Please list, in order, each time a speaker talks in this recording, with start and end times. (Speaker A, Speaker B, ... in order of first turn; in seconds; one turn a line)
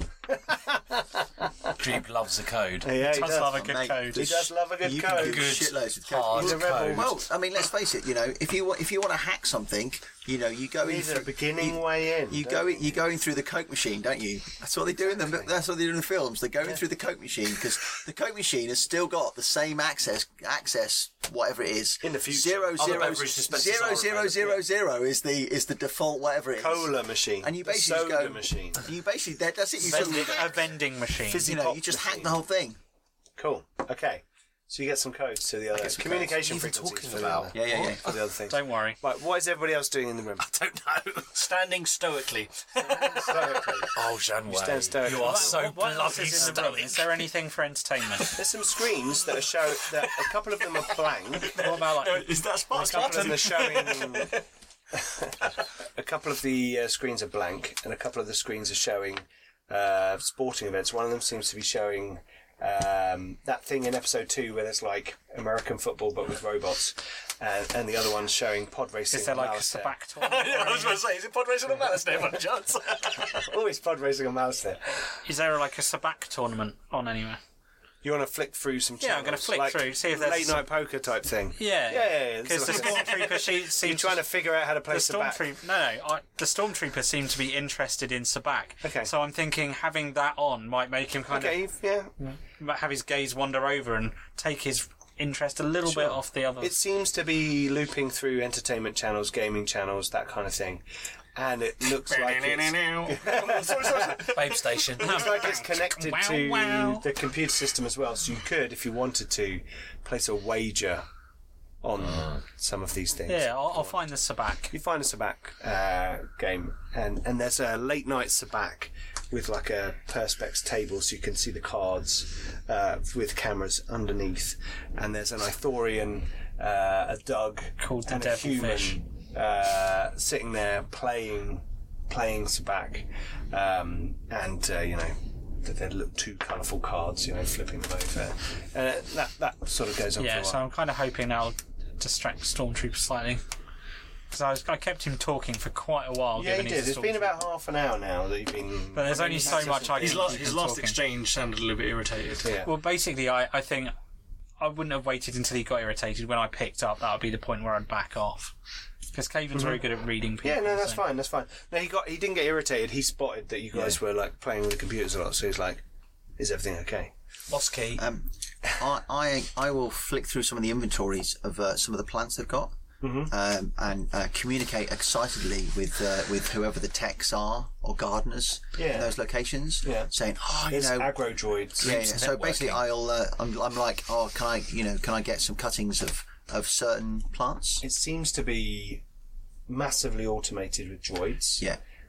Speaker A: 0.3-1.8
Speaker B: 1.8-2.9
Speaker A: 2.8-3.6
Speaker C: 3.0-4.3
Speaker D: 3.5-30.6
Speaker A: 4.1-5.5
Speaker B: 5.1-7.1
Speaker A: 6.3-7.2
Speaker A: 10.8-12.7
Speaker A: 22.0-23.3
Speaker B: 22.8-24.6
Speaker A: 26.6-28.9
Speaker C: 29.8-31.5
Speaker A: 31.3-32.4
Speaker D: 31.4-32.8
Speaker A: 33.4-40.5
Speaker B: 35.7-38.1
Speaker D: 37.5-38.0
Speaker C: 38.5-39.0
Speaker B: 40.4-41.7
Speaker E: 41.4-43.9
Speaker B: 42.8-47.3
Speaker A: 43.1-43.9
Speaker A: 44.5-45.7
Speaker C: 45.0-48.4
Speaker A: 48.3-51.5
Speaker E: 50.1-54.5
Speaker C: 51.5-52.4
Speaker B: 52.7-53.6
Speaker A: 52.7-54.4
Speaker A: 55.0-69.9
Speaker C: 69.1-71.0
Speaker E: 70.2-73.5
Speaker A: 73.2-75.0
Speaker C: 75.2-77.4
Speaker A: 78.0-85.4
Speaker C: 79.0-80.7
Speaker C: 81.6-84.3
Speaker E: 82.6-83.4
Speaker C: 84.9-91.6
Speaker A: 88.8-89.1
Speaker A: 91.3-92.1
Speaker C: 92.2-96.8
Speaker A: 95.9-100.8
Speaker A: 101.3-104.4
Speaker E: 102.0-104.7
Speaker B: 104.2-105.5
Speaker A: 105.0-111.1
Speaker C: 105.0-107.1
Speaker A: 111.8-114.1
Speaker B: 112.0-112.4
Speaker C: 113.3-114.7
Speaker A: 114.7-140.6
Speaker C: 127.8-129.0
Speaker C: 140.2-143.4
Speaker C: 144.3-147.5
Speaker A: 146.4-150.4
Speaker C: 148.9-151.0
Speaker E: 149.5-152.7
Speaker A: 152.4-152.7
Speaker C: 152.6-153.9
Speaker C: 154.6-158.5
Speaker C: 159.1-161.0
Speaker A: 159.5-159.8
Speaker A: 160.4-165.8
Speaker D: 163.7-164.0
Speaker A: 166.4-167.1
Speaker B: 167.5-168.0
Speaker D: 168.0-172.8
Speaker A: 173.0-173.3
Speaker D: 173.3-187.8
Speaker A: 178.8-179.1
Speaker A: 179.8-180.1
Speaker A: 180.7-182.1
Speaker B: 181.8-182.9
Speaker A: 187.8-189.0
Speaker A: 189.7-191.7